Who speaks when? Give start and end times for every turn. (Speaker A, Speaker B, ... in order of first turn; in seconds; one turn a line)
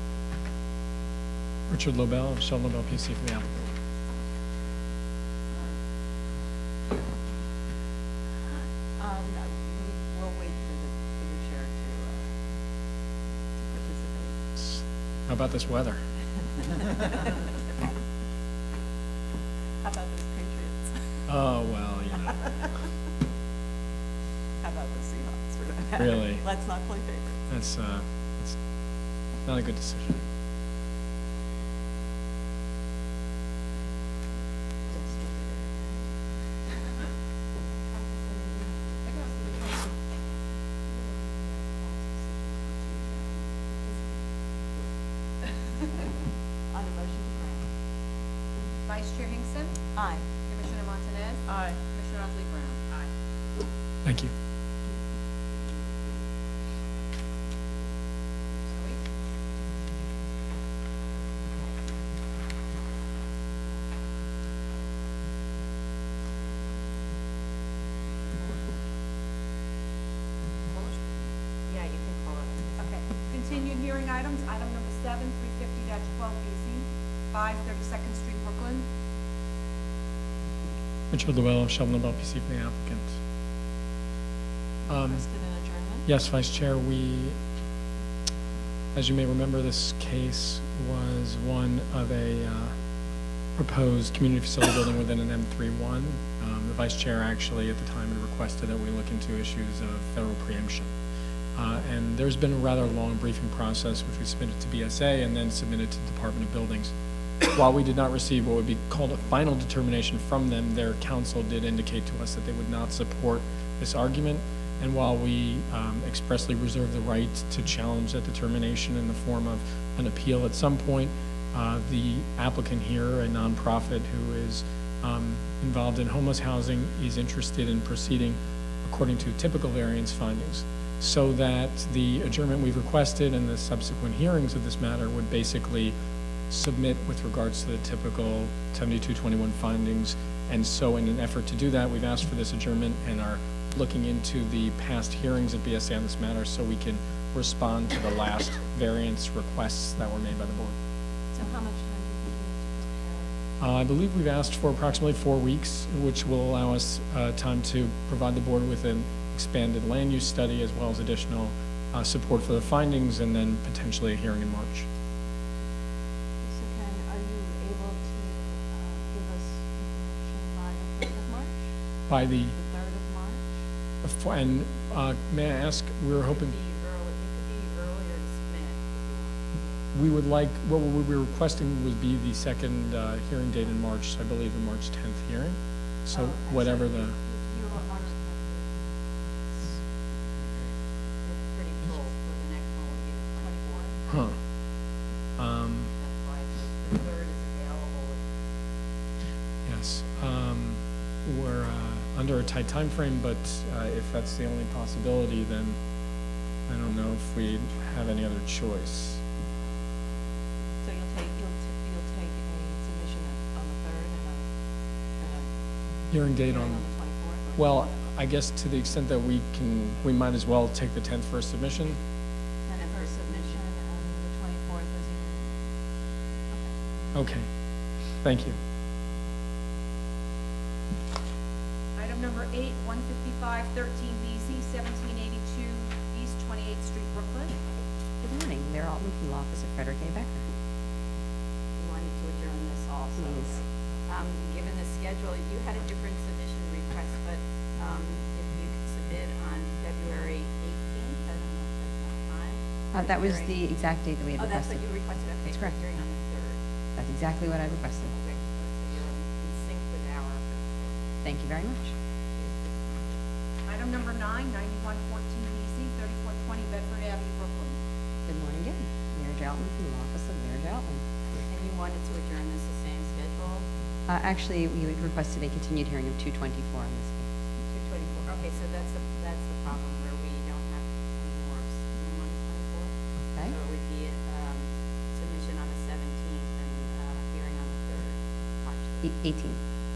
Speaker A: 1.7-3.5
Speaker B: 5.5-5.8
Speaker B: 6.9-7.1
Speaker B: 9.0-12.3
Speaker B: 13.6-14.4
Speaker A: 14.6-16.0
Speaker B: 16.9-17.6
Speaker B: 19.8-21.3
Speaker A: 21.3-22.5
Speaker B: 24.6-27.4
Speaker A: 26.0-26.5
Speaker A: 27.5-28.6
Speaker A: 29.4-30.2
Speaker B: 34.9-36.1
Speaker B: 41.8-43.3
Speaker B: 46.7-47.7
Speaker C: 48.9-49.8
Speaker B: 50.0-50.3
Speaker C: 50.4-53.1
Speaker B: 51.5-51.8
Speaker A: 54.0-54.3
Speaker C: 58.7-59.0
Speaker C: 70.7-71.1
Speaker D: 71.7-72.8
Speaker C: 72.8-78.9
Speaker A: 81.1-83.2
Speaker A: 84.9-85.3
Speaker B: 84.9-86.1
Speaker A: 86.1-87.4
Speaker A: 88.9-92.8
Speaker A: 93.6-100.9
Speaker A: 101.5-106.9
Speaker A: 107.5-136.0
Speaker A: 136.5-150.8
Speaker B: 151.3-153.4
Speaker A: 153.6-164.9
Speaker B: 166.4-171.7
Speaker A: 172.1-172.6
Speaker B: 172.5-173.6
Speaker A: 174.0-176.6
Speaker D: 176.1-179.7
Speaker A: 179.9-187.2
Speaker B: 186.1-188.7
Speaker D: 191.2-193.9
Speaker B: 193.4-194.0
Speaker A: 194.1-194.4
Speaker A: 195.4-195.9
Speaker D: 196.0-198.2
Speaker A: 199.7-205.8
Speaker A: 206.7-209.2
Speaker B: 210.8-214.5
Speaker B: 215.2-215.5
Speaker A: 216.1-216.9
Speaker B: 216.4-218.1
Speaker A: 217.6-222.0
Speaker B: 222.7-225.6
Speaker D: 222.7-223.7
Speaker A: 227.2-227.5
Speaker A: 228.2-228.6
Speaker C: 232.0-237.6
Speaker E: 238.2-240.5
Speaker D: 241.8-253.6
Speaker E: 243.2-243.5
Speaker E: 252.9-254.9
Speaker D: 254.4-256.6
Speaker E: 255.5-255.8
Speaker E: 257.0-258.1
Speaker D: 258.1-260.9
Speaker E: 261.2-261.9
Speaker D: 262.4-263.0
Speaker C: 263.7-267.8
Speaker E: 268.3-271.4
Speaker D: 271.5-273.7
Speaker E: 274.1-277.3
Speaker D: 277.6-289.1
Speaker E: 289.0-289.6